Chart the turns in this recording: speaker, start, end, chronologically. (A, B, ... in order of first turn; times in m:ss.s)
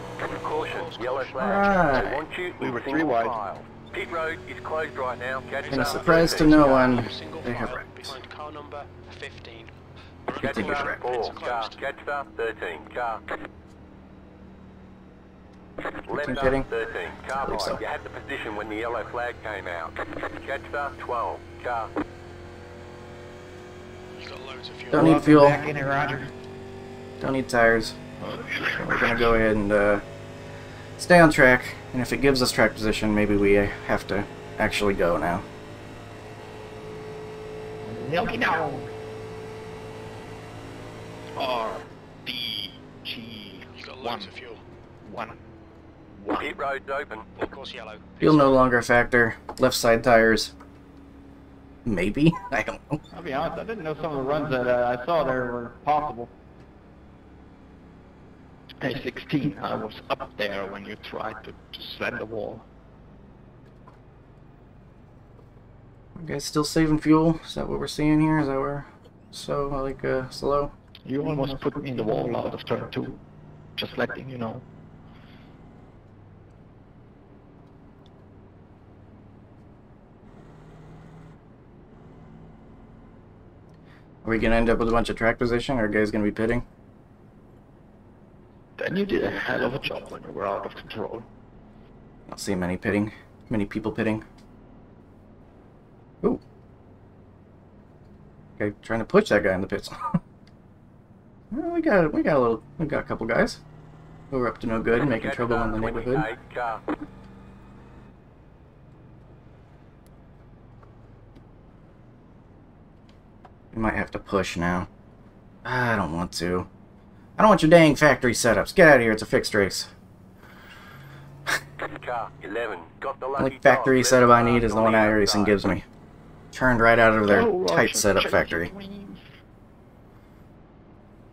0:00.3-0:06.6 A
0:00.3-0:02.0 B
0:01.4-0:02.2 C
0:02.6-0:03.4 D
0:05.6-0:09.8 B
0:05.7-0:08.2 C
0:10.3-0:11.8 B
0:10.4-0:11.0 C
0:10.4-0:13.2 A
0:16.1-0:21.9 A
0:16.1-0:16.7 C
0:17.4-0:17.8 C
0:24.2-0:25.5 B
0:24.9-0:25.6 C
0:24.9-0:26.2 D
0:25.3-0:26.2 E
0:27.2-0:28.0 C
0:28.4-0:29.4 E
0:28.9-0:30.0 C
0:31.0-0:35.5 C
0:38.2-0:38.6 E
0:38.2-0:38.6 F
0:38.2-0:38.6 D
0:41.4-0:41.8 F
0:42.3-0:43.4 F
0:43.0-0:43.3 E
0:43.8-0:44.6 B
0:44.0-0:44.3 F
0:45.1-0:45.3 F
0:46.4-0:47.3 A
0:47.4-0:48.6 B
0:48.2-0:50.5 C
0:51.8-0:53.0 C
0:53.1-0:56.3 D
0:58.8-1:02.6 E
1:00.6-1:01.0 F
1:06.2-1:10.7 C
1:11.1-1:13.2 E
1:11.2-1:12.5 F
1:13.8-1:14.6 E
1:24.2-1:26.6 C
1:28.8-1:31.3 E
1:32.3-1:34.3 C
1:38.6-1:40.2 C
1:41.5-1:43.6 C
1:44.3-1:46.3 C
1:45.0-1:46.8 A
1:53.7-1:54.9 C
1:55.6-1:56.7 C
1:57.4-1:59.9 C
2:01.8-2:05.8 A
2:03.4-2:05.8 C
2:06.5-2:08.7 C
2:07.3-2:09.2 E